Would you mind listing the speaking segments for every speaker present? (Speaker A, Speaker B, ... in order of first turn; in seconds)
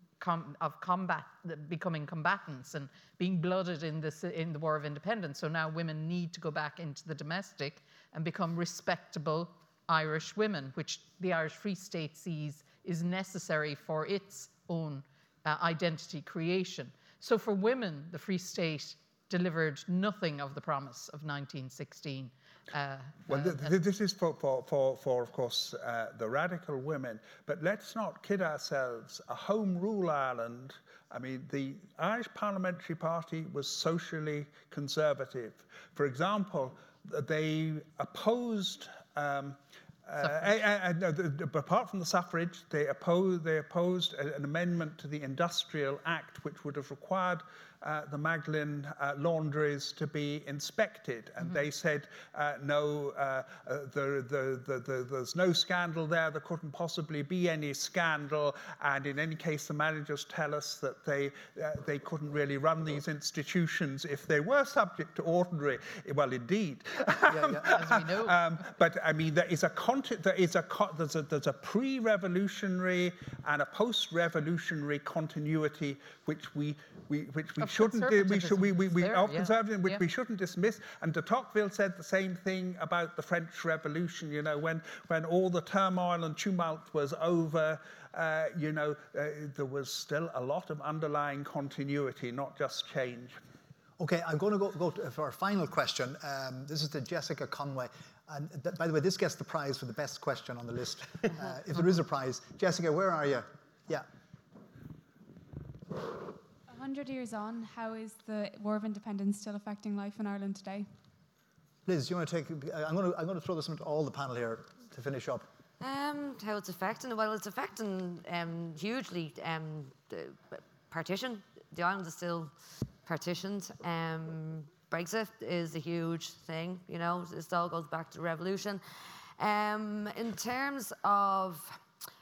Speaker A: 0.2-23.8, 67.3-68.4, 77.6-80.0
Speaker B: 23.3-93.4
Speaker C: 94.0-104.1, 111.8-115.5
Speaker D: 106.7-110.9
Speaker E: 115.8-122.5, 123.0-128.8, 129.4-131.8